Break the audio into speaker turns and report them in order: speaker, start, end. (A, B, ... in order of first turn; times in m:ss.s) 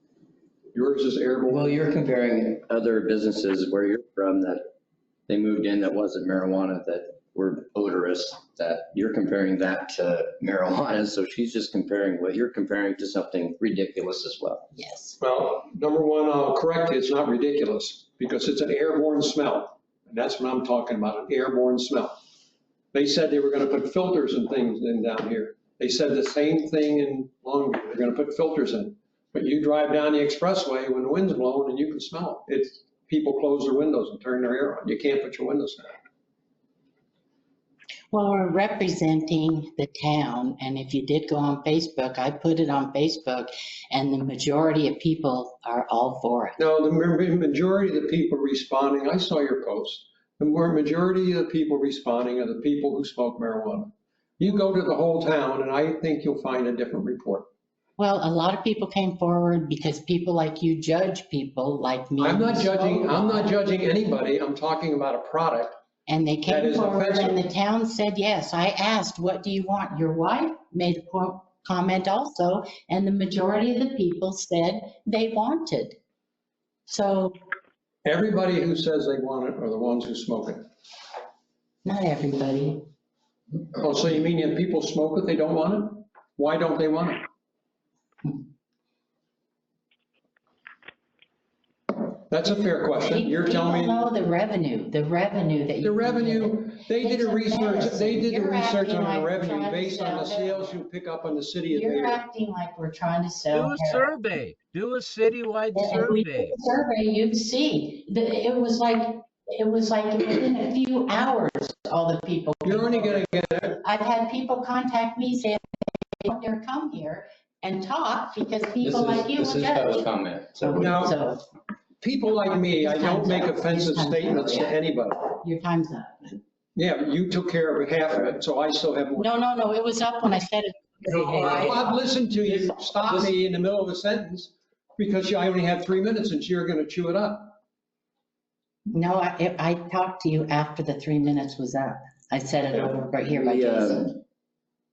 0:00.7-0:01.8 A
0:01.5-0:04.6 B
0:05.3-0:14.7 B
0:14.7-0:15.2 C
0:15.2-0:22.1 A
0:22.9-0:36.0 A
0:38.1-0:46.6 C
0:46.6-0:57.5 A
0:58.0-1:03.5 C
1:02.2-1:05.8 A
1:06.1-1:16.0 C
1:06.4-1:07.4 A
1:16.9-1:17.4 C
1:18.0-1:20.7 A
1:21.8-1:22.8 C
1:23.7-1:27.3 A
1:32.3-1:34.0 A
1:33.0-1:40.7 C
1:35.8-1:42.2 A
1:41.7-1:44.1 C
1:43.5-1:46.6 D
1:45.7-2:01.4 C
1:52.6-1:53.8 A
1:58.8-2:01.1 B
2:00.7-2:01.2 A
2:02.0-2:05.4 A
2:02.8-2:04.8 C
2:05.4-2:06.2 C
2:06.7-2:09.6 A
2:09.2-2:11.9 C
2:11.0-2:17.6 A
2:18.9-2:24.2 C
2:23.3-2:24.1 B